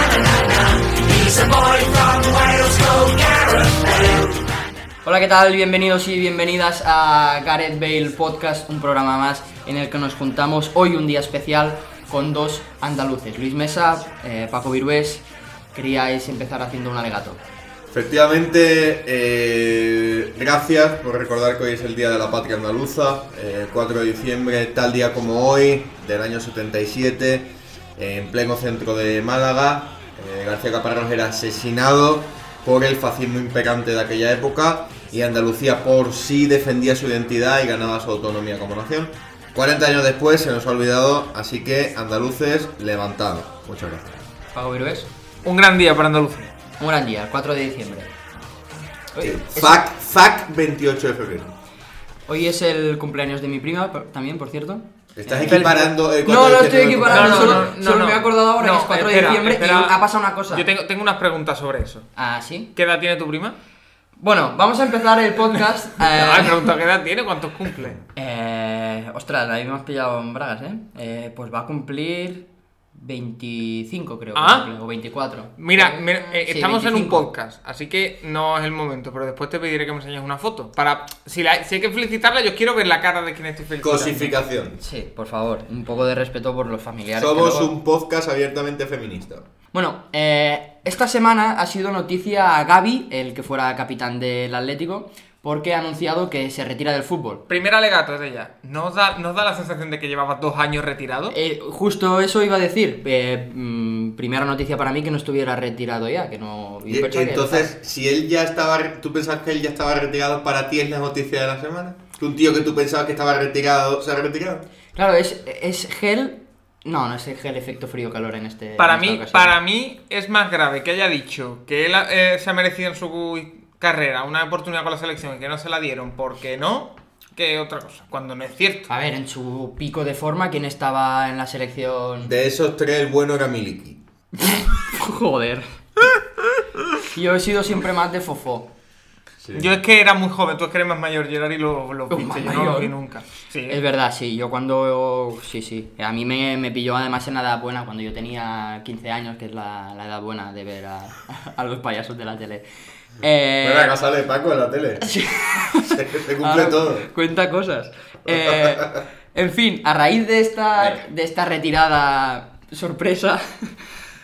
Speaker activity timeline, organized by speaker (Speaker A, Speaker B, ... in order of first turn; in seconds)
Speaker A: 1.3-3.1, 5.0-17.4, 44.5-45.1, 46.8-48.1, 49.1-49.9, 52.3-60.7, 62.2-62.7, 64.2-66.7, 68.2-77.2, 84.8-87.7, 89.7-97.4, 101.3-107.7, 115.0-119.5, 128.9-132.3, 134.4-135.7, 137.1-138.7, 142.1-142.9, 143.7-152.7, 153.2-154.0, 155.0-163.9
Speaker B: 17.9-44.2, 49.2-51.5, 55.2-57.7, 83.8-84.8, 87.2-89.5, 106.9-114.7, 132.2-134.0, 139.4-139.8, 153.6-155.1, 155.9-157.1, 158.3-159.0
Speaker C: 45.4-46.5, 55.5-55.9, 57.1-60.0, 60.5-62.1, 62.8-63.6, 66.0-68.0, 74.3-74.7, 75.6-84.4, 97.5-101.3, 118.8-128.9, 139.6-143.8